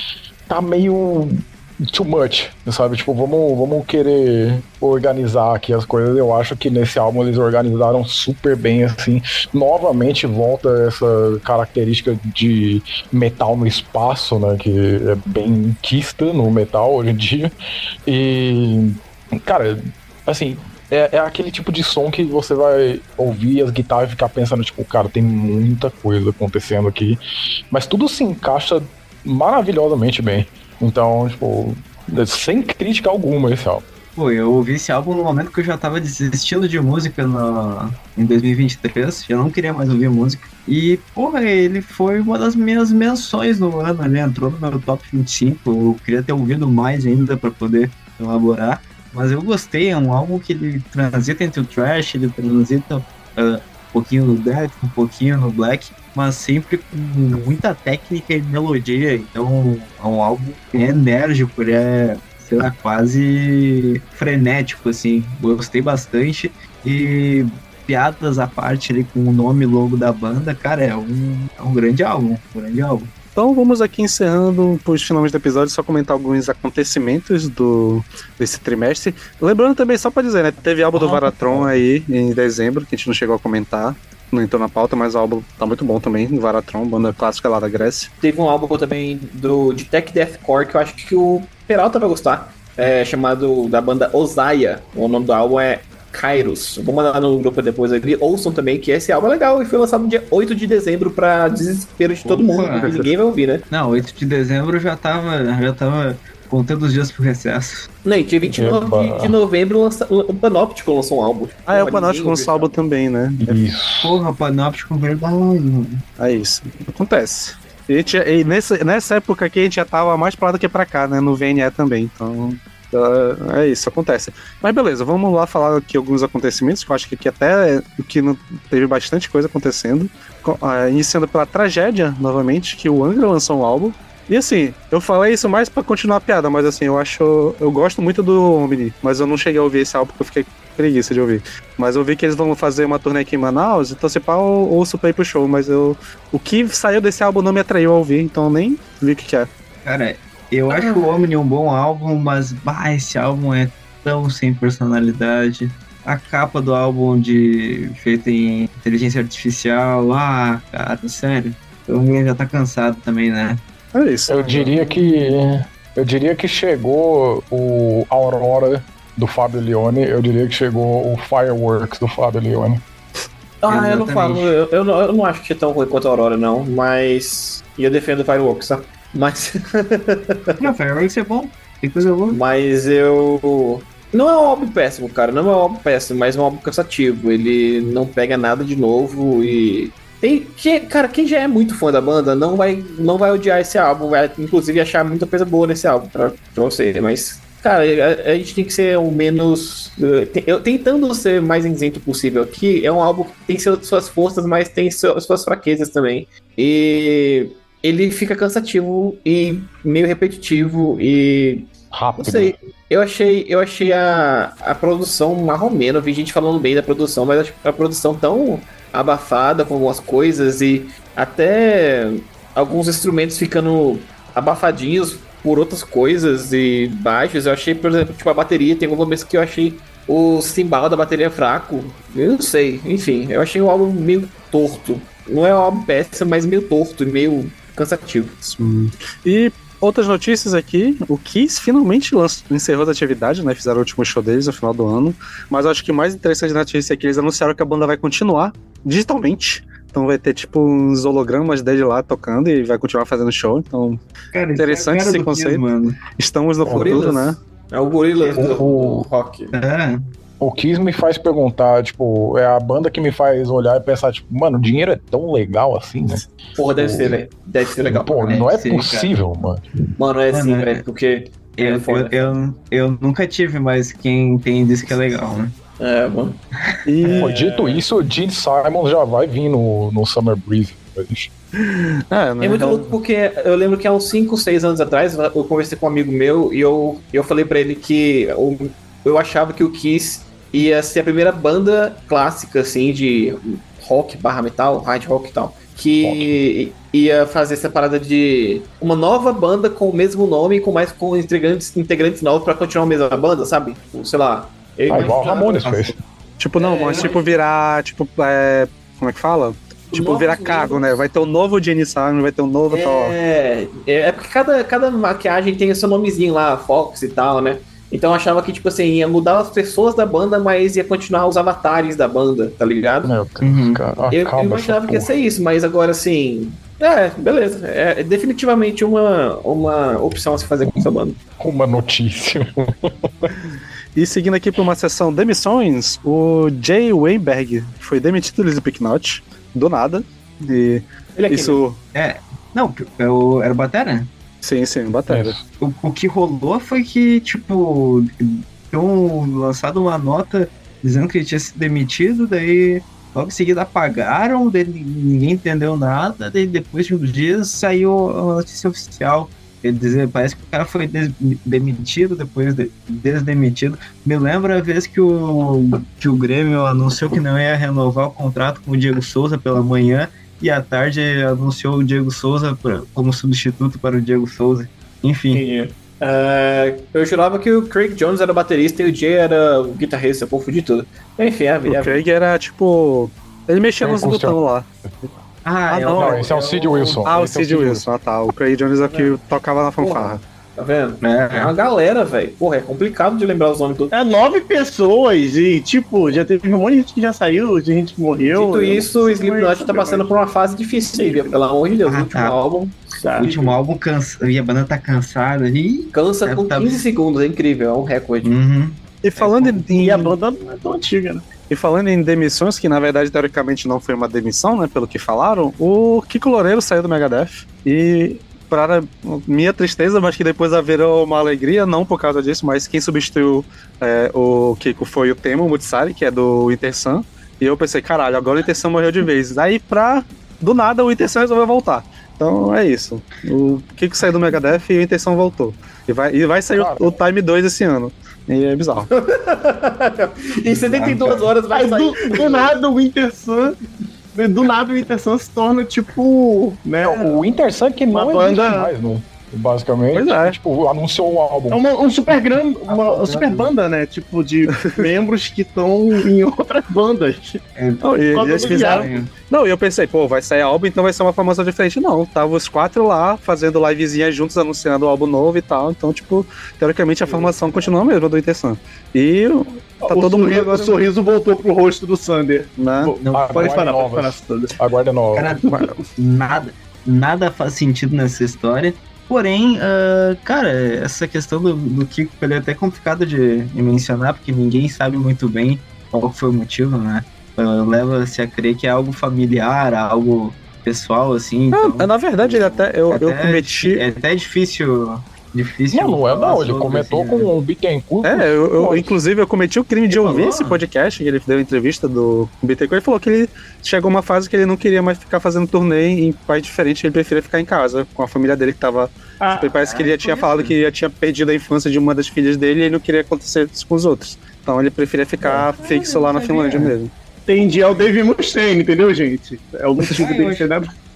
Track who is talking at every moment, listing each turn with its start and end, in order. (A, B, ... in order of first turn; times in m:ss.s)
0:00.5-0:17.5 A
0:18.1-0:27.2 A
0:27.7-0:33.8 A
0:34.2-1:13.1 B
1:13.4-1:28.1 C
1:21.0-1:21.3 A
1:28.2-1:43.6 D
1:42.2-1:43.0 B
1:43.7-1:47.9 B
1:48.0-1:52.8 D
1:48.5-1:49.4 A
1:51.7-1:53.7 C
1:53.4-1:54.2 A
1:54.0-1:56.0 B
1:56.2-2:29.5 C
2:29.8-2:43.6 B
2:30.7-2:31.1 D
2:43.9-2:44.8 C
2:44.3-2:52.8 A
2:53.6-3:00.7 D
2:53.7-2:54.5 B
3:00.6-3:02.4 B
3:02.3-3:58.4 D
3:31.9-3:32.6 A
3:58.5-4:14.0 C
4:14.3-4:16.0 B
4:14.6-4:17.4 C
4:16.6-4:19.6 D
4:18.2-4:18.5 B
4:18.3-4:19.1 A
4:19.5-4:20.0 B
4:20.4-4:27.2 A
4:26.6-4:28.3 D
4:27.8-4:29.6 A
4:28.2-4:29.1 B
4:30.0-4:32.3 D
4:30.3-4:30.8 B
4:31.6-4:35.6 B
4:35.8-4:36.4 D
4:36.9-4:37.4 C
4:37.0-4:37.3 B
4:37.1-4:37.8 D
4:37.2-4:41.3 A
4:41.6-4:43.0 C
4:42.4-5:05.2 D
4:56.0-4:56.4 A
5:04.9-5:05.9 B
5:04.9-5:06.0 A
5:06.4-5:13.2 C
5:06.6-5:07.3 D
5:06.9-5:07.2 B
5:09.9-5:11.0 D
5:12.7-5:23.1 D
5:23.0-5:25.1 A
5:23.4-5:23.8 B
5:24.1-5:31.2 D
5:31.4-5:33.3 A
5:34.0-5:41.8 C
5:41.2-5:41.6 D
5:41.9-5:44.1 B
5:44.4-5:45.4 C
5:45.1-5:45.4 A
5:45.6-6:15.4 B
6:15.3-6:22.0 D
6:21.7-6:24.7 C
6:23.8-6:24.4 A
6:25.4-6:27.1 B
6:25.7-6:26.2 C
6:25.8-6:27.8 A
6:27.0-6:30.2 C
6:28.9-6:29.2 D
6:29.8-6:33.9 D
6:31.0-6:31.5 B
6:33.9-6:40.1 E
6:38.3-6:42.9 D
6:40.9-6:41.4 E
6:41.8-6:42.4 B
6:42.9-6:43.5 E
6:43.2-6:46.8 B
6:45.9-6:48.3 D
6:48.2-6:48.8 B
6:49.0-6:50.2 C
6:49.5-6:51.3 E
6:51.5-7:18.9 C
7:16.6-7:16.9 A
7:18.8-7:22.5 D
7:20.4-7:21.3 B
7:21.5-7:23.6 E
7:24.2-7:27.2 E
7:26.8-7:31.6 A
7:27.9-7:28.7 E
7:29.9-7:30.4 C
7:31.5-7:37.4 E
7:32.7-7:33.5 B
7:34.5-7:34.9 C
7:37.6-7:39.1 B
7:37.8-7:50.8 C
7:38.1-7:38.9 E
7:47.1-7:47.6 D
7:49.8-7:54.5 E
7:52.6-7:52.9 C
7:53.0-7:53.6 B
7:53.1-7:55.4 A
7:55.2-8:17.3 B
8:11.5-8:13.8 C
8:15.7-8:18.9 A
8:18.0-8:36.9 C
8:19.9-8:20.6 B
8:29.2-8:29.6 E
8:29.6-8:30.5 B
8:35.2-8:36.7 B
8:37.3-8:40.7 E
8:40.0-8:40.5 B